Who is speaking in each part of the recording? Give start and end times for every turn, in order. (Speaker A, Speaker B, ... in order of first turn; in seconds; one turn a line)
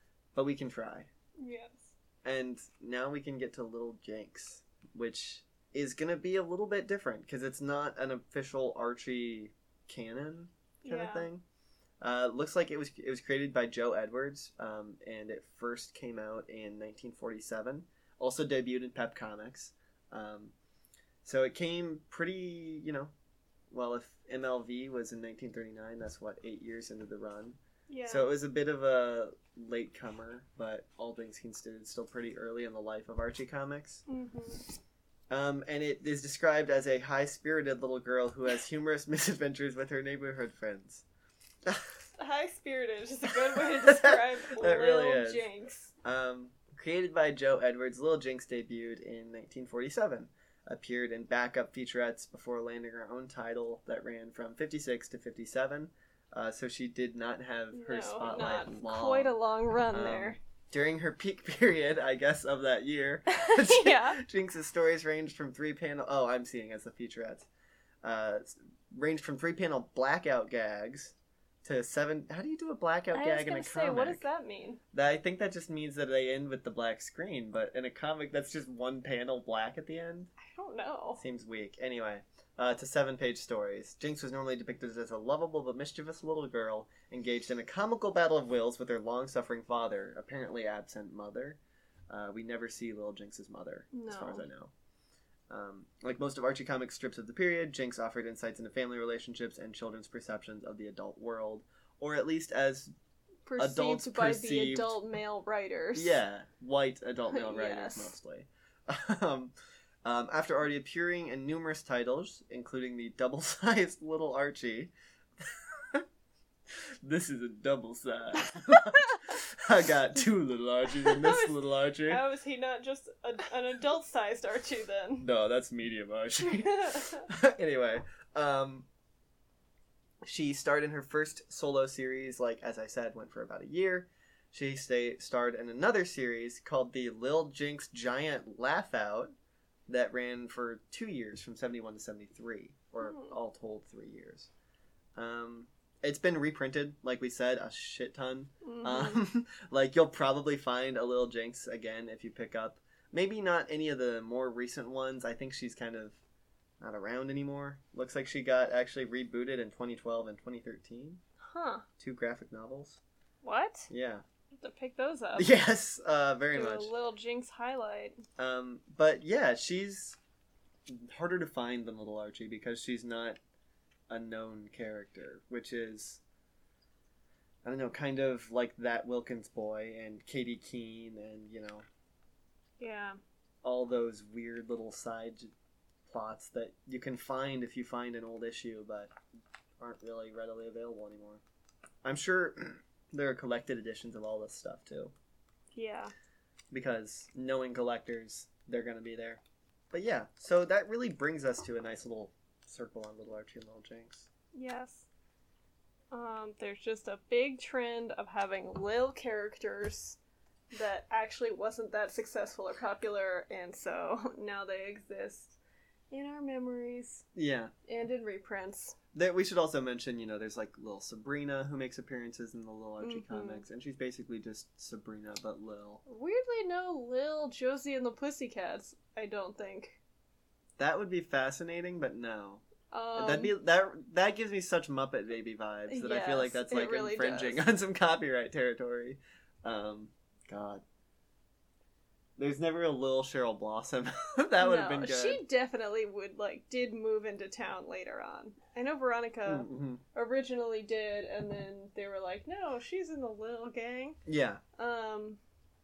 Speaker A: 0.3-1.1
Speaker B: 1.4-1.9
Speaker A: 2.2-11.4
Speaker B: 10.8-11.3
Speaker A: 12.0-20.5
Speaker A: 21.2-23.1
Speaker A: 23.7-34.0
Speaker B: 27.9-28.3
Speaker B: 34.1-34.6
Speaker A: 35.3-41.0
Speaker B: 42.2-45.9
Speaker A: 43.3-45.5
Speaker A: 46.0-59.3
Speaker B: 57.7-60.4
Speaker A: 59.9-67.5
Speaker B: 63.3-64.2
Speaker A: 68.0-74.2
Speaker B: 73.1-74.8
Speaker A: 74.9-80.3
Speaker B: 80.4-81.2
Speaker A: 81.2-94.7
Speaker B: 93.9-94.5
Speaker A: 95.5-102.9
Speaker B: 103.5-106.2
Speaker A: 103.6-105.0
Speaker A: 105.9-109.5
Speaker B: 107.3-108.1
Speaker A: 110.0-116.0
Speaker A: 117.0-122.2
Speaker B: 118.5-119.1
Speaker B: 120.9-125.3
Speaker A: 125.2-128.8
Speaker B: 126.4-127.2
Speaker A: 130.2-139.3
Speaker A: 139.9-144.5
Speaker B: 143.0-143.3
Speaker A: 145.2-156.2
Speaker B: 148.6-149.2
Speaker A: 156.8-161.2
Speaker B: 161.5-161.8
Speaker A: 162.0-163.0
Speaker B: 163.4-163.9
Speaker A: 163.9-164.2
Speaker B: 164.6-165.5
Speaker A: 165.3-166.9
Speaker B: 166.5-168.2
Speaker A: 168.4-170.2
Speaker A: 170.9-173.4
Speaker A: 174.1-176.2
Speaker A: 177.6-181.8
Speaker B: 182.8-183.2
Speaker A: 183.6-185.5
Speaker A: 186.1-189.1
Speaker A: 189.8-191.4
Speaker A: 192.0-195.1
Speaker B: 195.7-196.1
Speaker A: 196.7-204.3
Speaker B: 204.5-205.1
Speaker B: 206.1-210.2
Speaker B: 210.7-215.6
Speaker B: 216.1-217.2
Speaker A: 217.3-217.7
Speaker B: 217.9-218.9
Speaker A: 219.1-226.0
Speaker B: 223.0-223.6
Speaker B: 226.1-230.0
Speaker A: 230.8-232.6
Speaker B: 232.9-233.5
Speaker A: 233.2-240.8
Speaker B: 235.9-237.6
Speaker A: 242.4-245.4
Speaker B: 244.6-254.2
Speaker A: 249.4-250.0
Speaker A: 254.2-254.6
Speaker B: 254.8-255.4